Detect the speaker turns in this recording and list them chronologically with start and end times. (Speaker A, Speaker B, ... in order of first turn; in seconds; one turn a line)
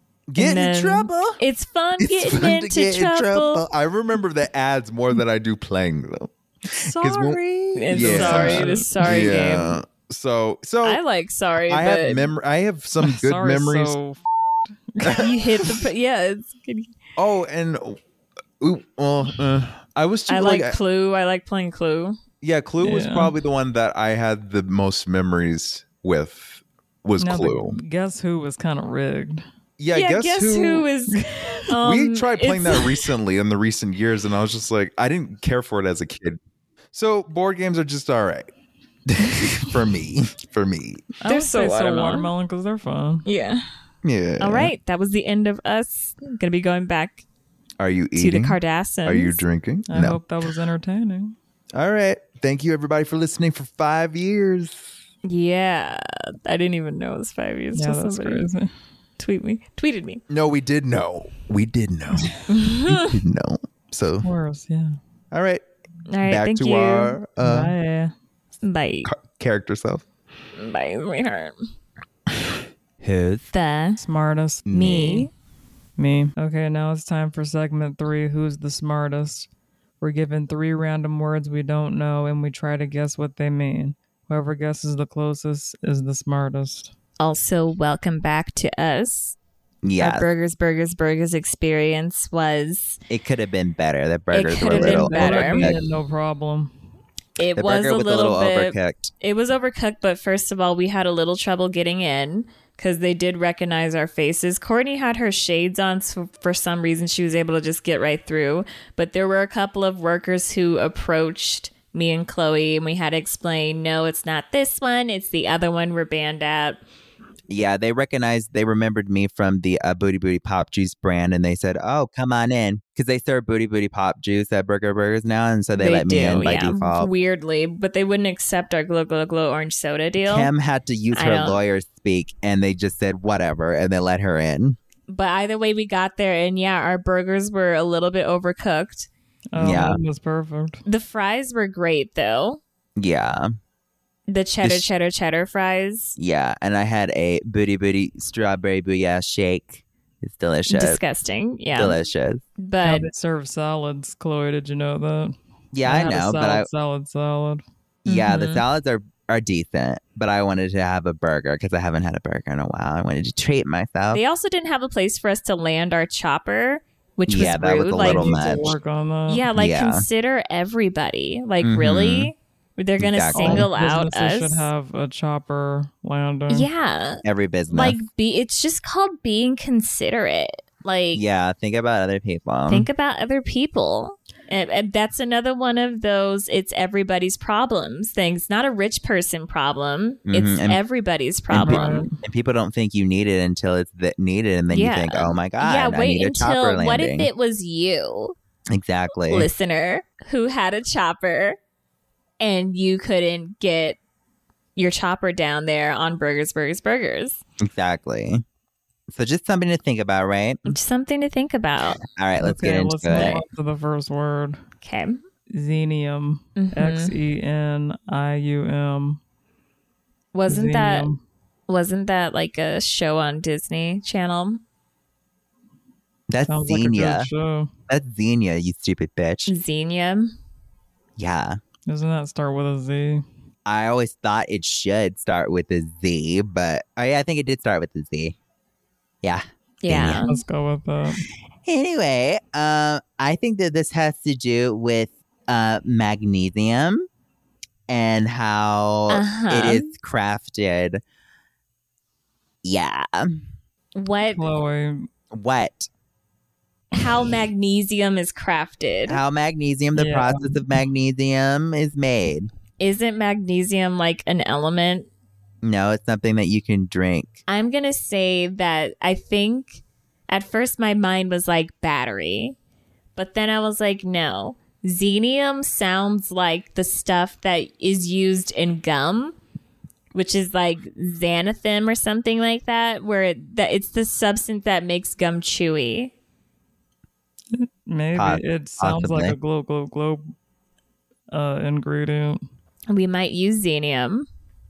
Speaker A: 0.3-1.4
Speaker B: 0.3-3.6
Speaker A: 2.0-11.0
Speaker C: 6.9-7.4
Speaker B: 7.7-9.8
Speaker C: 7.9-9.3
Speaker B: 10.8-12.3
Speaker A: 11.7-14.0
Speaker C: 13.0-14.2
Speaker C: 14.9-15.3
Speaker A: 15.0-15.7
Speaker B: 15.1-16.9
Speaker A: 17.1-18.0
Speaker A: 18.6-20.8
Speaker B: 20.3-22.2
Speaker A: 22.4-27.8
Speaker C: 22.8-23.3
Speaker C: 27.2-29.4
Speaker A: 29.8-30.9
Speaker B: 29.9-33.0
Speaker C: 31.1-31.6
Speaker A: 31.8-36.4
Speaker A: 36.9-38.5
Speaker A: 39.1-41.1
Speaker C: 41.2-43.2
Speaker B: 41.2-42.3
Speaker B: 43.2-43.6
Speaker A: 44.0-44.7
Speaker B: 44.4-47.2
Speaker A: 47.8-50.2
Speaker B: 48.1-49.4
Speaker C: 49.9-51.3
Speaker A: 51.7-54.9
Speaker B: 55.2-58.5
Speaker C: 57.7-58.7
Speaker B: 59.2-60.2
Speaker A: 60.3-64.3
Speaker B: 62.5-63.2
Speaker C: 64.2-65.0
Speaker A: 65.3-65.6
Speaker B: 66.1-67.2
Speaker A: 66.2-67.7
Speaker C: 67.4-68.1
Speaker B: 68.6-69.1
Speaker A: 69.0-70.0
Speaker B: 70.5-71.6
Speaker D: 73.0-73.5
Speaker B: 73.5-74.0
Speaker C: 74.0-74.7
Speaker B: 74.7-75.3
Speaker D: 74.7-75.3
Speaker C: 76.0-79.5
Speaker C: 80.0-86.9
Speaker B: 87.2-89.3
Speaker D: 89.8-90.3
Speaker B: 90.0-93.0
Speaker D: 93.1-95.8
Speaker B: 94.3-95.7
Speaker C: 94.7-96.7
Speaker B: 97.4-116.8
Speaker D: 97.5-99.1
Speaker D: 117.5-127.1
Speaker B: 125.8-130.5
Speaker D: 130.2-134.8
Speaker B: 131.1-131.6
Speaker B: 135.1-139.1
Speaker C: 139.5-140.8
Speaker D: 139.6-140.0
Speaker B: 140.8-142.6
Speaker D: 143.0-143.5
Speaker B: 144.3-146.2
Speaker D: 144.6-144.9
Speaker D: 146.2-151.0
Speaker B: 150.7-152.0
Speaker D: 151.7-152.4
Speaker B: 152.6-153.1
Speaker C: 152.8-157.6
Speaker D: 155.7-156.7
Speaker D: 158.0-164.2
Speaker B: 158.1-158.6
Speaker B: 164.1-168.4
Speaker D: 167.3-168.8
Speaker C: 168.0-169.4
Speaker B: 169.3-174.7
Speaker D: 169.5-170.1
Speaker D: 171.6-172.3
Speaker D: 173.0-173.7
Speaker C: 173.3-176.7
Speaker B: 176.5-181.2
Speaker D: 177.2-178.0
Speaker D: 181.1-182.9
Speaker B: 182.7-192.1
Speaker D: 190.3-190.8
Speaker D: 191.5-197.3
Speaker C: 191.6-192.1
Speaker B: 194.7-198.3
Speaker D: 198.7-199.5
Speaker B: 199.3-201.6
Speaker B: 202.4-204.0
Speaker B: 204.8-207.4
Speaker D: 207.6-208.4
Speaker D: 209.1-210.8
Speaker B: 210.7-212.0
Speaker D: 212.0-213.4
Speaker C: 212.4-214.6
Speaker B: 213.1-213.4
Speaker B: 214.8-215.2
Speaker C: 215.5-219.2
Speaker B: 216.6-217.1
Speaker B: 220.3-221.1
Speaker C: 220.5-221.2
Speaker B: 221.7-224.6
Speaker D: 226.3-227.3
Speaker C: 226.5-227.7
Speaker D: 227.9-229.5
Speaker B: 229.5-230.3
Speaker D: 231.2-231.6
Speaker C: 231.9-233.2
Speaker D: 233.7-238.3
Speaker D: 239.2-240.3
Speaker B: 239.8-240.4
Speaker C: 240.2-241.3
Speaker D: 241.6-247.1
Speaker D: 247.9-251.0
Speaker B: 249.1-249.9
Speaker D: 252.6-253.5
Speaker B: 253.9-254.4
Speaker C: 254.2-255.1
Speaker D: 255.3-255.9
Speaker B: 256.9-259.2
Speaker D: 259.1-262.5
Speaker C: 259.9-260.7
Speaker B: 262.8-265.1
Speaker D: 265.6-267.4
Speaker B: 267.5-272.6
Speaker B: 273.1-279.4
Speaker B: 280.1-286.1
Speaker C: 287.5-290.3
Speaker D: 288.1-289.4
Speaker C: 291.3-292.4
Speaker B: 292.9-294.3